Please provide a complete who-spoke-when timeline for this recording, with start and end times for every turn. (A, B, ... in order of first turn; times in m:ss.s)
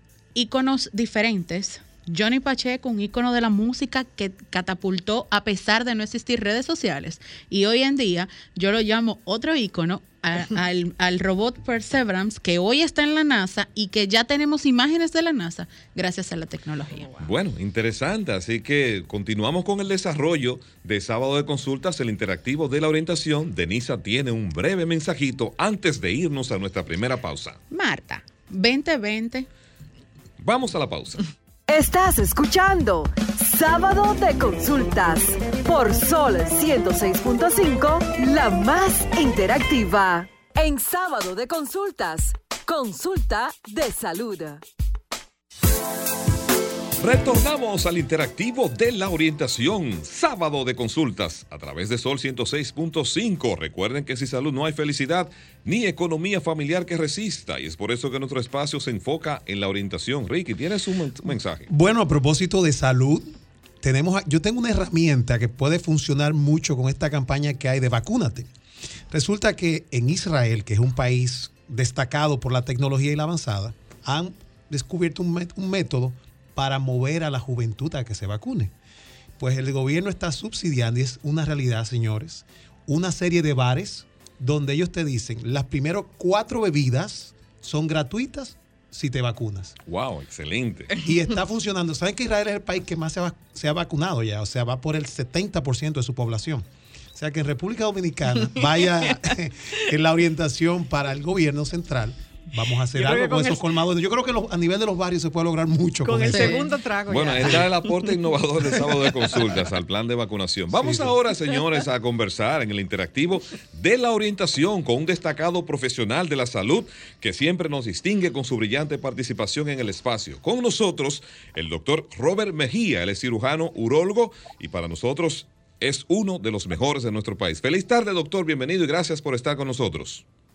0:00.3-0:17.1 A
0:17.0-0:17.3 B
0:17.2-0:27.6 C
0:27.7-0:29.5 A
0:30.4-0:31.2 C
0:31.7-0:44.6 D
0:47.0-1:01.7 C
1:01.3-1:08.5 E
1:09.1-1:18.7 E
1:19.4-1:29.7 E
1:29.8-1:30.9 C
1:31.0-1:46.6 E
1:38.4-1:39.2 B
1:42.9-1:43.7 B
1:46.0-1:49.7 B
1:46.3-1:46.6 A
1:47.1-2:10.2 C
1:50.7-1:51.2 E